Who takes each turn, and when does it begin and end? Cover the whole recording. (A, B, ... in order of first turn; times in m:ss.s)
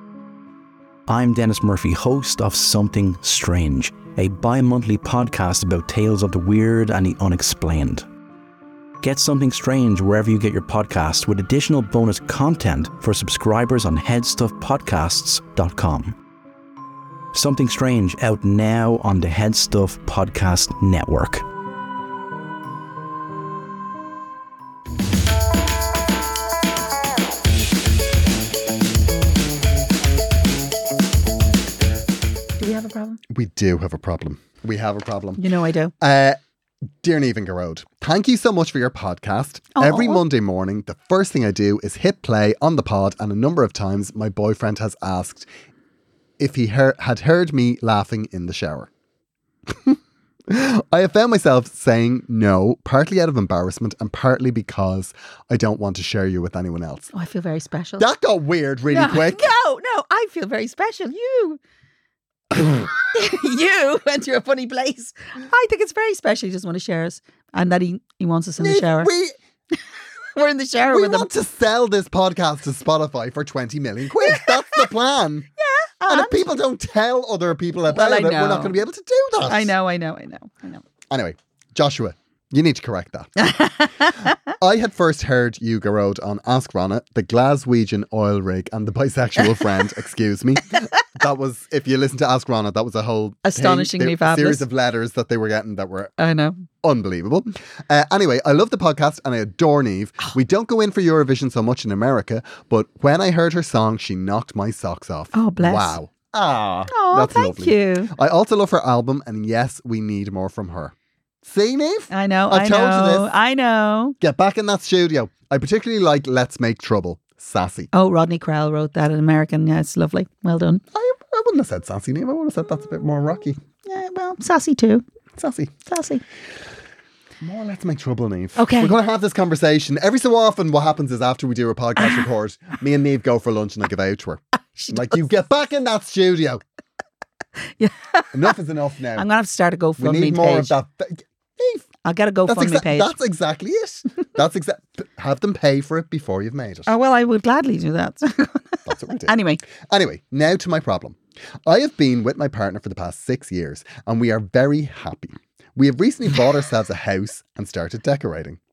0:01.1-0:08.0 A
0:09.0-0:16.2 A
0:17.3-0:21.4 A
0:32.6-0:33.2 B
0:33.3-0:35.4 C
0:35.4-0:35.9 B
0:36.0-0:36.4 C
0:37.0-0:45.5 C
0:39.8-0:40.2 B
0:46.4-0:48.9 C
0:49.7-0:57.1 C
0:57.1-0:58.0 B
0:58.0-0:59.5 C
0:58.9-1:01.6 B
1:03.1-1:09.1 B
1:08.6-1:09.4 C
1:10.3-1:11.3 B
1:10.9-1:15.5 C
1:14.2-1:14.5 B
1:15.6-1:16.4 B
1:16.1-1:19.7 C
1:17.9-1:18.8 B
1:19.4-1:20.8 B
1:21.1-1:23.3 C
1:23.4-1:24.4 B
1:24.6-1:36.1 C
1:33.4-1:34.6 B
1:36.2-1:36.6 B
1:36.8-1:53.3 C
1:45.3-1:46.0 B
1:46.9-1:48.1 B
1:52.1-1:54.1 B
1:54.2-1:57.9 C
1:57.9-2:00.8 B
2:00.9-2:03.6 C
2:03.8-2:05.0 B
2:05.4-2:05.7 C
2:05.8-2:06.2 B
2:07.4-2:16.6 C
2:08.6-2:08.9 B
2:14.8-2:15.2 B
2:17.8-2:18.5 B
2:18.3-2:19.3 C
2:19.2-2:20.7 B
2:20.0-2:21.9 C
2:22.0-2:23.1 B
2:22.4-2:26.9 C
2:26.9-2:29.6 B
2:28.8-2:38.6 C